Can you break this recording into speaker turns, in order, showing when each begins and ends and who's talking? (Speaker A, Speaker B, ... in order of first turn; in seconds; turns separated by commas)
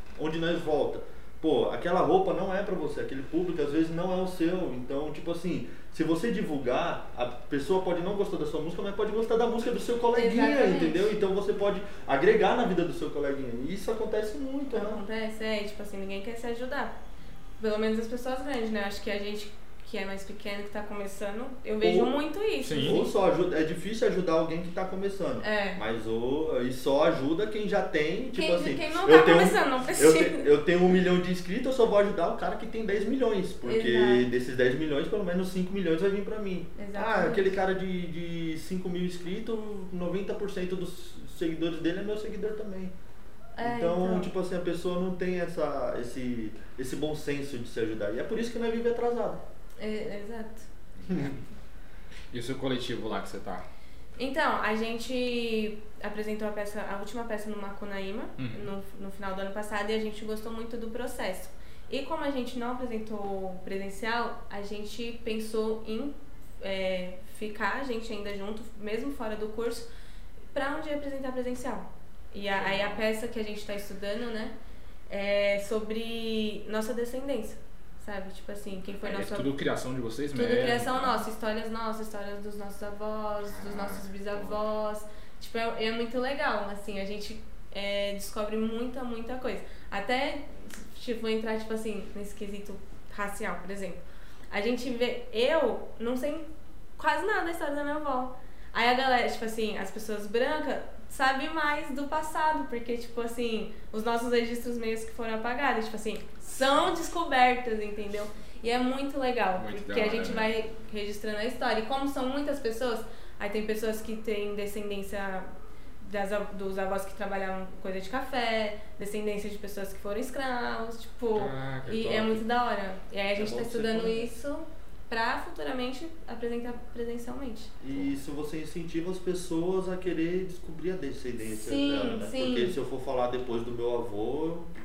Speaker A: 0.1-15.0, Speaker B: 10.2-11.1, Speaker B: 14.7-16.9, Speaker B: 17.6-23.1, Speaker A: 21.8-22.2, Speaker C: 22.6-23.0, Speaker A: 22.8-42.9, Speaker B: 25.4-25.8, Speaker B: 28.3-30.4, Speaker B: 33.6-34.2, Speaker B: 36.8-37.5, Speaker B: 43.5-44.3, Speaker A: 43.6-49.4, Speaker B: 49.8-50.7, Speaker C: 51.0-51.4, Speaker A: 51.1-51.3, Speaker C: 52.3-53.6, Speaker B: 54.2-69.8, Speaker C: 58.4-58.7, Speaker B: 70.5-74.5, Speaker C: 72.5-73.0, Speaker B: 75.1-79.5, Speaker C: 79.0-81.2, Speaker B: 80.3-96.5, Speaker C: 83.5-84.6, Speaker B: 97.0-115.5, Speaker C: 109.6-110.5, Speaker B: 116.0-127.7, Speaker C: 121.3-122.4, Speaker A: 123.3-124.3, Speaker A: 127.8-134.7, Speaker B: 131.5-132.7